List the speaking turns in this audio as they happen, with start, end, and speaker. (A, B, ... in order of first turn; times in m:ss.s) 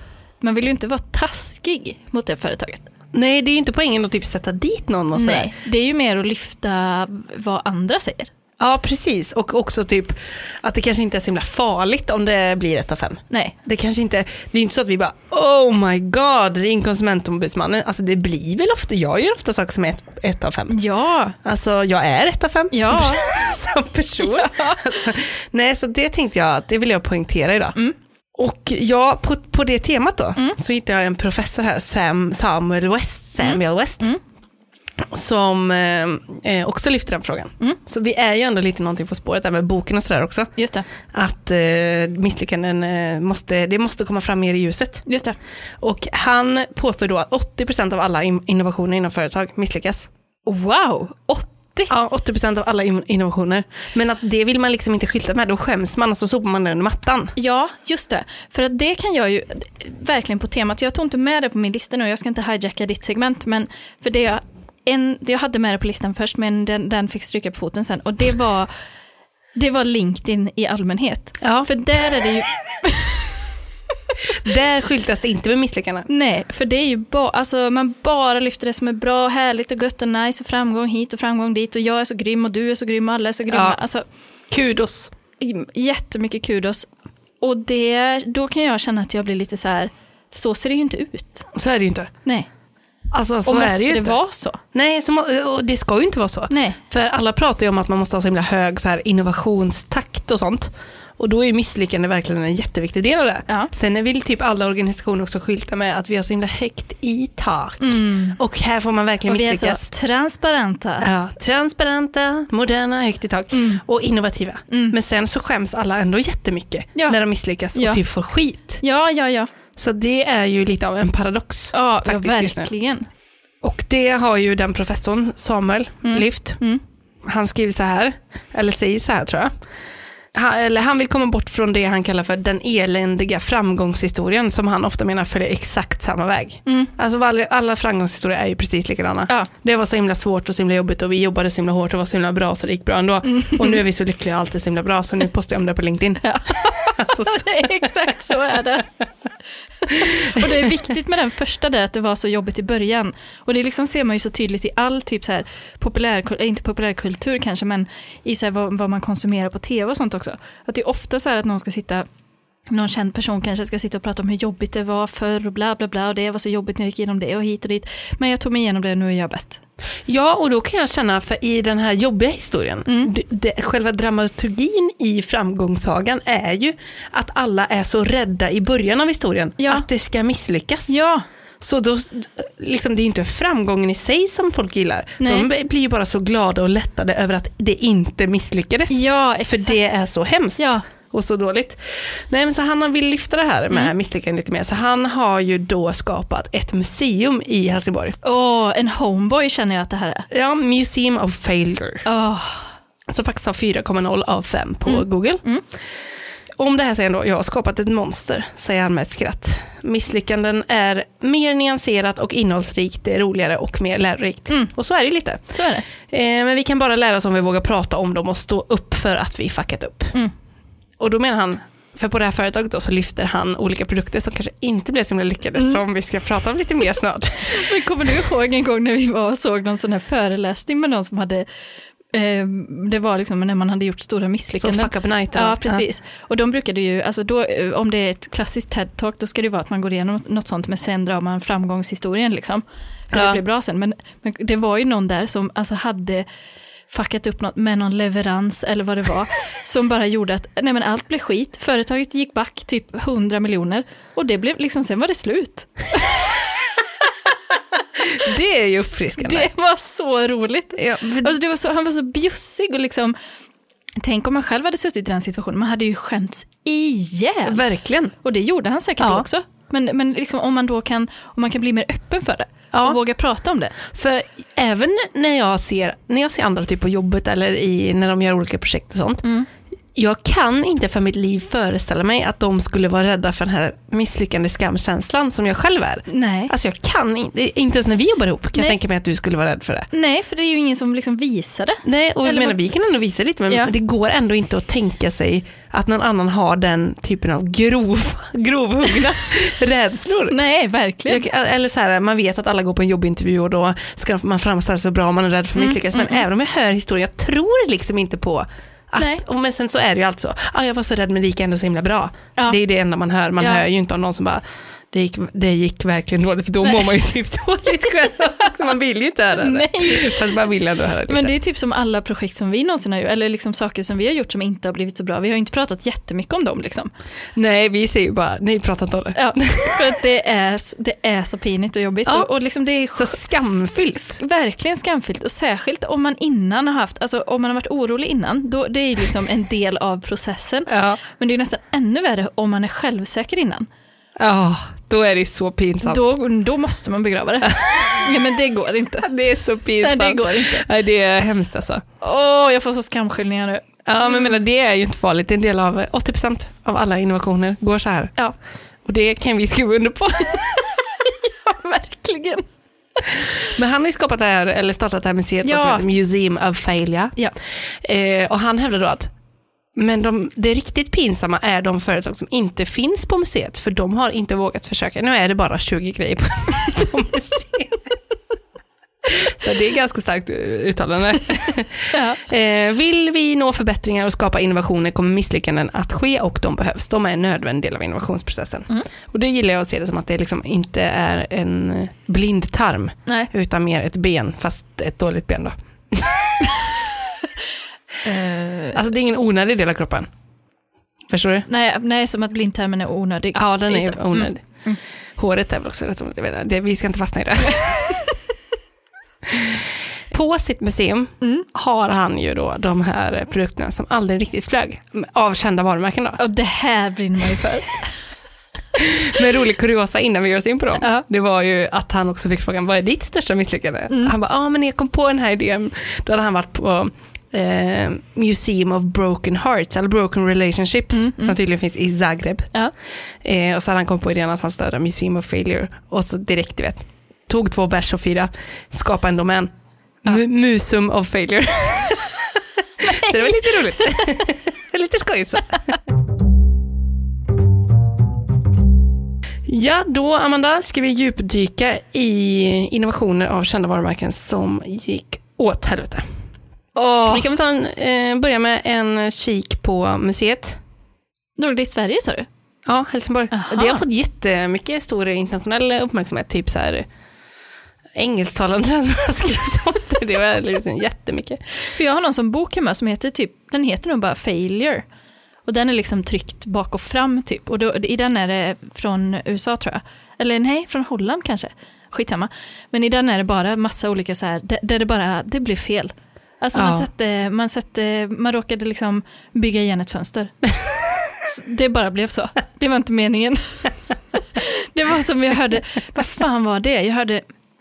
0:00.4-0:02.9 A
0:03.1-0:05.5 B
0:05.1-0:08.3 A
0:08.6-0:20.8 B
0:20.7-0:21.4 A
0:21.4-0:27.8 B
0:22.7-0:23.2 A
0:24.2-0:24.8 A
0:28.3-0:34.1 B
0:33.4-0:34.2 A
0:35.0-0:40.5 B
0:40.6-0:40.9 A
0:41.1-0:45.0 B
0:45.0-0:45.4 A
0:45.8-0:50.1 B
0:50.4-0:51.9 A
0:51.9-0:57.3 B
0:57.4-1:08.7 A
1:09.5-1:13.3 A
1:11.4-1:11.7 B
1:14.4-1:16.1 B
1:16.1-1:24.0 A
1:23.5-1:23.8 B
1:24.5-1:25.1 B
1:25.4-1:26.9 A
1:27.4-1:31.5 A
1:31.5-1:32.1 B
1:33.1-1:34.2 B
1:33.4-1:34.6 A
1:34.7-1:49.8 B
1:36.5-1:36.8 A
1:47.8-1:48.4 A
1:49.3-1:51.1 A
1:51.0-1:58.8 B
1:53.5-1:53.8 A
1:54.7-1:55.0 A
1:57.7-1:58.0 A
1:58.8-1:59.5 A
1:59.8-2:02.7 B
2:01.7-2:03.1 A
2:03.6-2:06.6 B
2:06.0-2:06.8 A
2:07.2-2:09.5 B
2:10.3-2:27.8 B
2:16.6-2:16.9 A
2:23.3-2:23.8 A
2:26.2-2:28.9 A
2:29.8-2:42.0 A
2:30.0-2:30.7 B
2:42.7-2:49.6 A
2:50.0-3:00.9 B
2:52.9-2:53.1 A
2:59.6-2:59.8 A
3:00.9-3:01.2 A
3:01.6-3:18.2 B
3:05.2-3:05.5 A
3:08.9-3:09.8 A
3:10.6-3:10.8 A
3:18.2-3:20.3 A
3:20.3-3:22.0 B
3:22.0-3:22.7 A
3:23.1-3:25.4 B
3:24.8-3:25.6 A
3:26.6-3:40.1 B
3:35.5-3:35.8 A
3:41.0-3:47.7 B
3:47.5-3:51.4 A
3:52.1-4:06.2 A
3:54.6-3:55.8 B
4:03.1-4:03.4 B
4:06.9-4:16.2 A
4:18.0-4:19.5 B
4:19.2-4:23.1 A
4:20.8-4:21.4 B
4:24.0-4:27.6 A
4:27.4-4:28.1 B
4:28.2-4:33.8 A
4:29.0-4:29.2 B
4:32.7-4:33.0 B
4:33.8-4:39.2 B
4:39.9-4:49.9 B
4:46.1-4:46.5 A
4:49.9-4:52.6 A
4:51.8-5:00.4 B
5:00.3-5:01.2 A
5:01.1-5:21.3 B
5:05.6-5:06.2 A
5:09.0-5:09.2 A
5:13.4-5:13.6 A
5:19.3-5:20.4 A
5:21.1-5:26.9 A
5:27.3-5:29.9 B
5:29.1-5:33.2 A
5:32.0-5:32.3 B
5:33.0-5:34.2 B
5:33.9-5:43.7 A
5:40.7-5:41.0 B
5:44.2-5:46.0 B
5:45.8-5:49.1 A
5:49.0-5:51.8 B
5:49.8-5:50.6 A
5:52.0-5:54.3 A
5:53.8-5:58.1 B
5:58.8-6:00.7 B
6:01.0-6:02.4 A
6:03.1-6:07.1 B
6:05.4-6:05.8 A
6:07.7-6:09.1 B
6:09.8-6:17.8 B
6:19.0-6:36.6 B
6:21.9-6:22.2 A
6:38.0-6:38.8 A
6:38.7-6:40.1 B
6:41.1-6:41.4 B
6:41.5-6:44.8 A
6:43.3-6:44.4 B
6:45.2-6:48.0 B
6:49.3-6:56.2 B
6:51.2-6:51.4 A
6:56.2-6:57.8 A
6:58.7-7:12.5 B
7:10.9-7:11.4 A
7:13.2-7:19.5 B
7:20.0-7:25.8 B
7:22.8-7:23.1 A
7:29.4-7:36.0 B
7:36.8-7:37.3 A
7:37.0-7:40.6 B
7:41.4-7:42.3 A
7:42.6-7:46.8 B
7:43.3-7:43.8 A
7:48.0-7:51.4 B
7:51.6-7:54.8 A
7:55.4-8:10.3 A
8:06.5-8:06.9 B
8:11.2-8:17.2 A